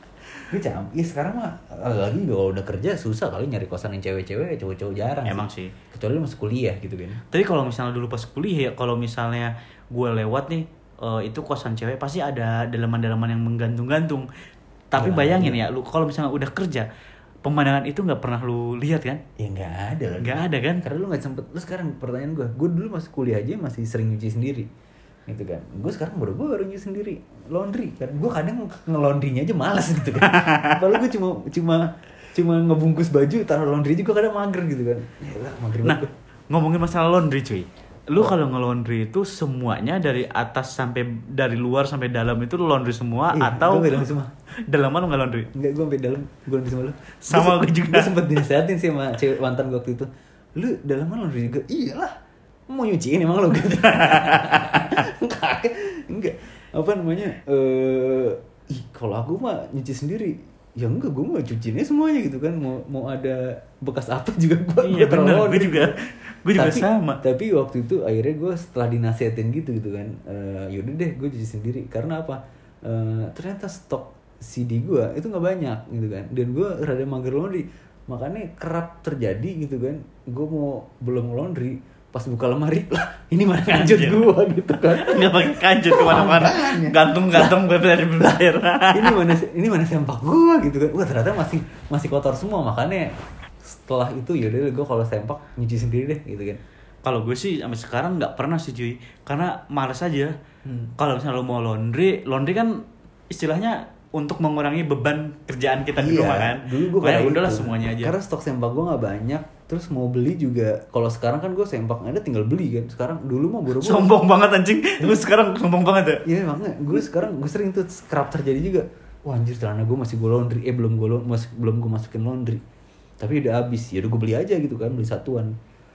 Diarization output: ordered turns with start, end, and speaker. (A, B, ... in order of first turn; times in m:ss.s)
0:00.5-0:07.2 A
0:05.2-0:05.7 B
0:07.3-0:14.3 B
0:14.9-0:16.9 B
0:15.0-0:15.6 A
0:17.4-0:19.2 B
0:19.4-0:24.7 A
0:20.2-0:20.8 B
0:25.3-0:36.1 A
0:30.2-0:30.8 B
0:35.8-0:44.1 B
0:43.3-0:44.3 A
0:44.7-0:45.5 B
0:45.5-0:52.2 A
0:47.2-0:48.3 B
0:52.7-1:05.9 A
0:53.8-0:54.9 B
1:04.8-1:07.2 B
1:06.5-1:27.6 A
1:23.7-1:24.3 B
1:24.9-1:29.3 B
1:28.9-1:36.6 A
1:37.0-1:40.3 B
1:40.6-1:40.9 A
1:41.0-1:48.1 B
1:46.0-1:54.1 A
1:53.8-1:56.2 B
1:56.2-2:02.6 A
2:03.2-2:05.5 A